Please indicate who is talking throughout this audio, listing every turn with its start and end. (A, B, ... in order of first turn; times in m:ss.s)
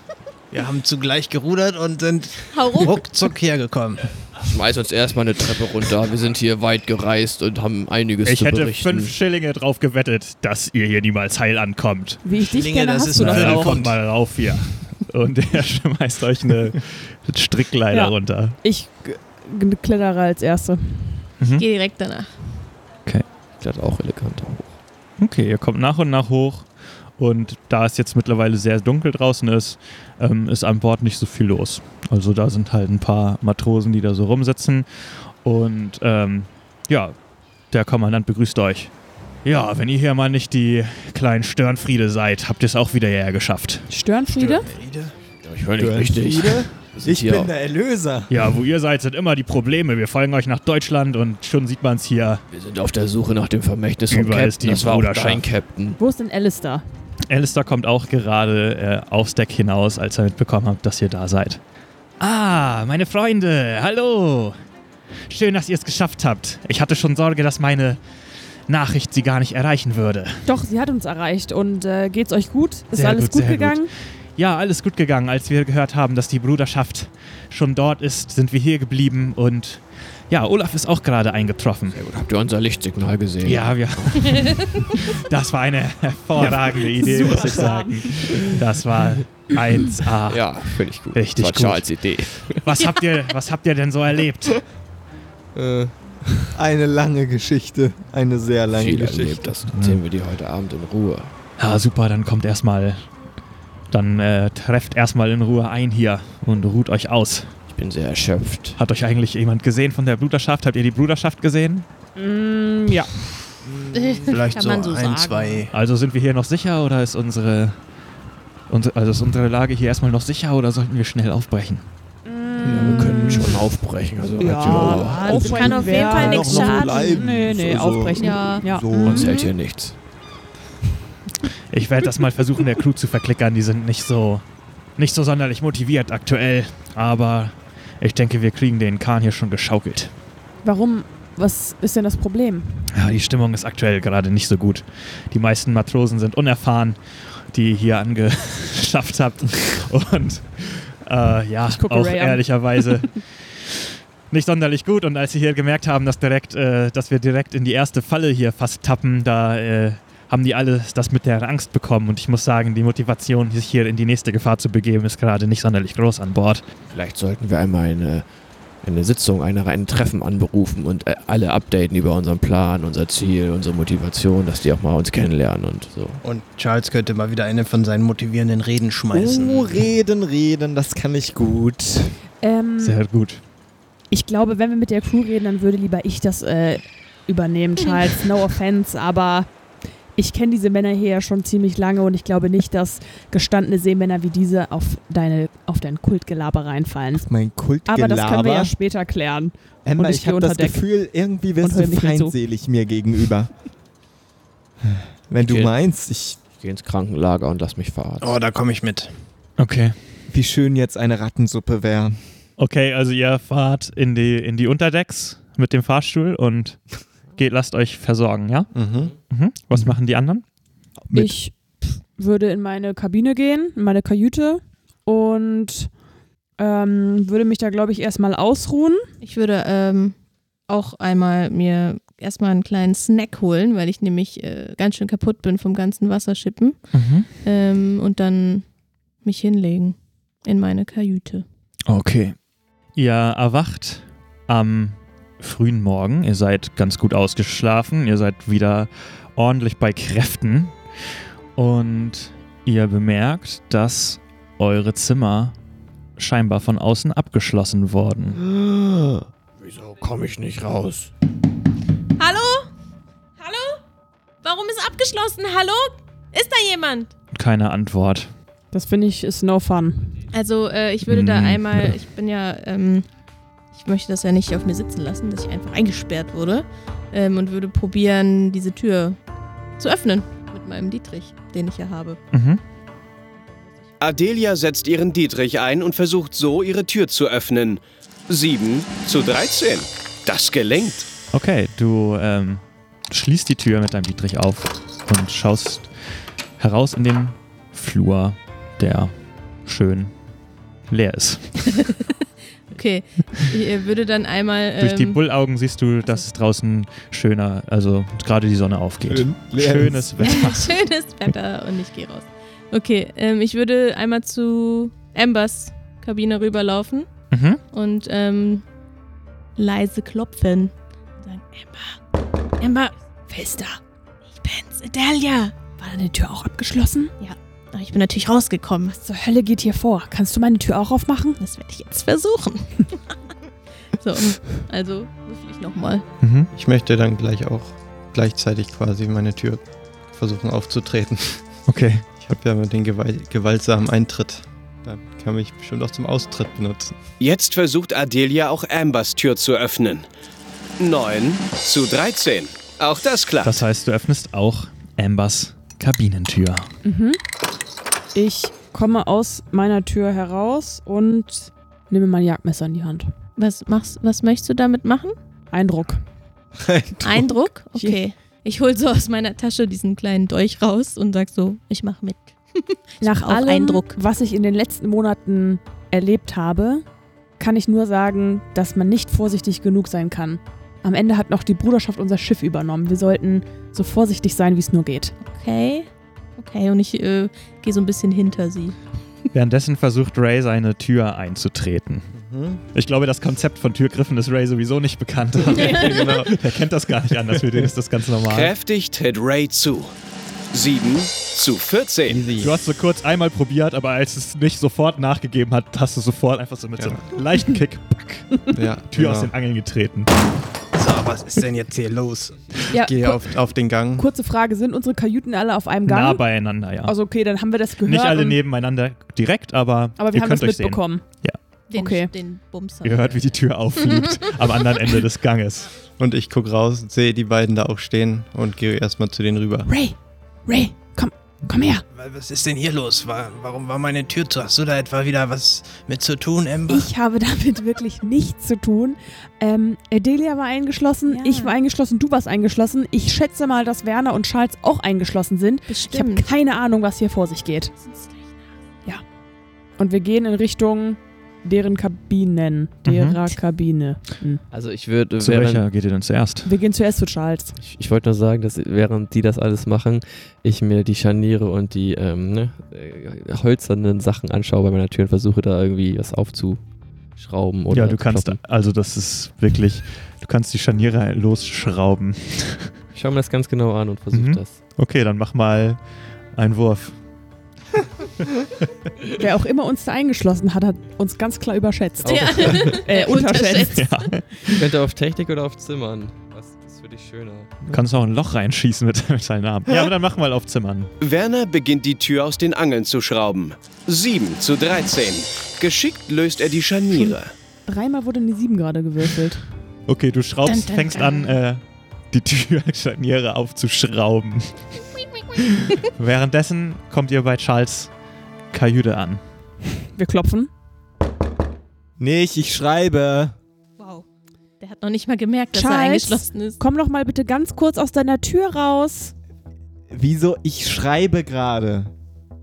0:00.5-0:04.1 A
0:02.5-0:03.0 B
0:04.4-0:09.2 C
0:08.2-0:12.2 D
0:12.2-0:13.8 E
0:12.4-0:14.0 A
0:13.1-0:18.6 D
0:17.9-0:21.3 E
0:21.5-0:22.3 B
0:23.6-0:24.8 C
0:25.2-0:34.9 D
0:35.4-0:37.2 D
0:37.7-0:38.9 D
0:39.4-0:43.9 D
0:43.9-0:44.7 E
0:44.3-0:45.1 A
0:45.4-0:47.5 C
0:45.8-0:48.4 F
0:48.3-0:52.4 D
0:52.5-0:56.0 C
0:54.1-0:55.4 D
0:56.0-0:56.8 E
0:57.3-1:01.6 D
1:02.2-1:04.6 D
1:05.3-1:08.0 D
1:08.7-1:10.4 D
1:10.5-1:13.9 E
1:12.9-1:22.0 D
1:21.9-1:24.7 C
1:23.4-1:34.6 D
1:26.4-1:28.6 E
1:30.3-1:32.6 C
1:35.6-1:36.5 C
1:36.5-1:39.6 F
1:38.7-1:41.3 C
1:39.7-1:40.0 D
1:41.6-1:43.1 D
1:43.9-1:47.6 D
1:47.7-1:48.8 C
1:48.8-1:51.9 D
1:52.2-1:53.2 E
1:53.9-1:55.6 B
1:54.3-1:55.7 A
1:55.7-1:57.8 D
1:58.7-2:01.9 D
2:02.2-2:03.7 E
2:02.6-2:03.5 F
2:02.6-2:05.6 C
2:04.4-2:08.9 E
2:05.2-2:07.2 B
2:05.3-2:09.4 F
2:08.2-2:09.5 B
2:09.0-2:10.0 C
2:11.7-2:14.4 D
2:15.0-2:20.1 D
2:20.6-2:22.9 E
2:22.9-2:27.0 D
2:27.5-2:46.6 D
2:31.7-2:33.1 E
2:46.9-2:48.3 C
2:48.8-2:56.2 C
2:56.2-2:59.9 A
2:59.1-3:02.2 F
3:02.4-3:03.0 E
3:02.8-3:03.4 D
3:04.1-3:09.5 E
3:10.2-3:17.3 E
3:17.2-3:18.7 F
3:17.9-3:20.8 E
3:19.8-3:23.5 F
3:21.6-3:22.4 E
3:24.8-3:26.4 F
3:25.4-3:25.7 C
3:26.6-3:28.4 C
3:28.2-3:29.1 A
3:29.6-3:30.0 D
3:30.3-3:32.2 F
3:32.6-3:36.8 D
3:37.4-3:38.7 D
3:38.7-3:39.2 G
3:39.3-3:40.4 D
3:41.1-3:41.4 F
3:41.1-3:45.9 E
3:46.6-3:49.1 E
3:49.2-3:50.2 B
3:50.7-3:58.7 B
3:56.9-3:57.3 D
3:59.2-4:01.4 B
4:01.9-4:02.4 D
4:03.0-4:10.8 D
4:11.6-4:15.5 D
4:16.2-4:18.4 D
4:18.4-4:21.1 C
4:22.2-4:22.7 B
4:23.4-4:23.8 B
4:24.4-4:27.1 B
4:27.3-4:28.3 D
4:28.7-4:30.2 E
4:30.3-4:33.1 B
4:31.1-4:32.0 D
4:33.7-4:39.2 B
4:39.8-4:42.2 B
4:42.3-4:42.6 D
4:44.0-4:51.1 H
4:51.3-4:55.9 D
4:56.6-5:00.1 D
5:00.9-5:01.7 D
5:02.7-5:05.2 B
5:04.8-5:10.8 D
5:09.0-5:10.4 F
5:10.2-5:17.1 B
5:17.3-5:17.6 D
5:17.7-5:18.6 B
5:19.6-5:22.0 B
5:22.6-5:22.9 B
5:23.3-5:23.8 E
5:24.4-5:25.5 B
5:25.5-5:27.1 E
5:27.2-5:29.0 B
5:29.0-5:31.4 E
5:31.4-5:33.0 B
5:33.9-5:36.0 B
5:36.2-5:36.5 D
5:36.5-5:41.4 G
5:41.7-5:42.1 D
5:42.2-5:47.0 G
5:47.2-5:50.1 H
5:50.8-5:53.6 H
5:53.4-5:56.7 D
5:56.8-5:57.2 E
5:58.1-6:03.1 E
6:03.4-6:05.2 B
6:05.5-6:06.0 E
6:06.6-6:07.4 F
6:07.0-6:14.0 B
6:07.8-6:08.0 E
6:13.0-6:16.8 E
6:17.4-6:25.1 E
6:25.2-6:28.8 B
6:29.3-6:32.1 D
6:32.1-6:32.6 G
6:32.7-6:38.5 D
6:35.5-6:36.3 G
6:35.5-6:36.1 B
6:38.3-6:39.9 H
6:40.5-6:42.3 H
6:42.2-6:42.5 G
6:42.3-6:50.2 D
6:48.5-6:49.3 G
6:50.7-6:52.8 A
6:52.7-6:53.3 E
6:52.7-6:54.1 G
6:54.0-6:56.2 E
6:55.9-6:57.0 D
6:56.8-6:58.4 E
6:57.8-7:01.4 D
7:00.0-7:01.0 E
7:01.7-7:03.3 B
7:01.7-7:02.1 E
7:02.8-7:05.7 D
7:06.0-7:09.7 G
7:09.7-7:11.8 E
7:11.9-7:16.9 A
7:16.7-7:27.7 E
7:21.1-7:21.6 B
7:25.7-7:26.3 B
7:27.8-7:28.3 B
7:29.8-7:34.4 E
7:32.8-7:33.2 D
7:34.5-7:35.6 C
7:35.2-7:36.5 D
7:36.4-7:37.6 E
7:37.6-7:46.6 C
7:47.2-7:48.4 C
7:47.7-7:52.7 D
7:52.9-7:54.6 C
7:54.1-7:55.8 D
7:56.4-7:57.0 D
7:59.2-8:03.9 E
8:02.0-8:02.8 C
8:02.0-8:03.9 B
8:03.7-8:04.6 D
8:04.4-8:07.6 C
8:07.7-8:10.9 D
8:11.0-8:17.3 H
8:17.7-8:19.5 E
8:19.9-8:24.6 D
8:20.5-8:21.4 B
8:25.6-8:27.9 D
8:28.5-8:29.2 D
8:30.0-8:30.5 E
8:32.0-8:33.4 F
8:33.8-8:34.0 B
8:34.6-8:36.6 B
8:35.5-8:39.1 E
8:39.9-8:41.9 F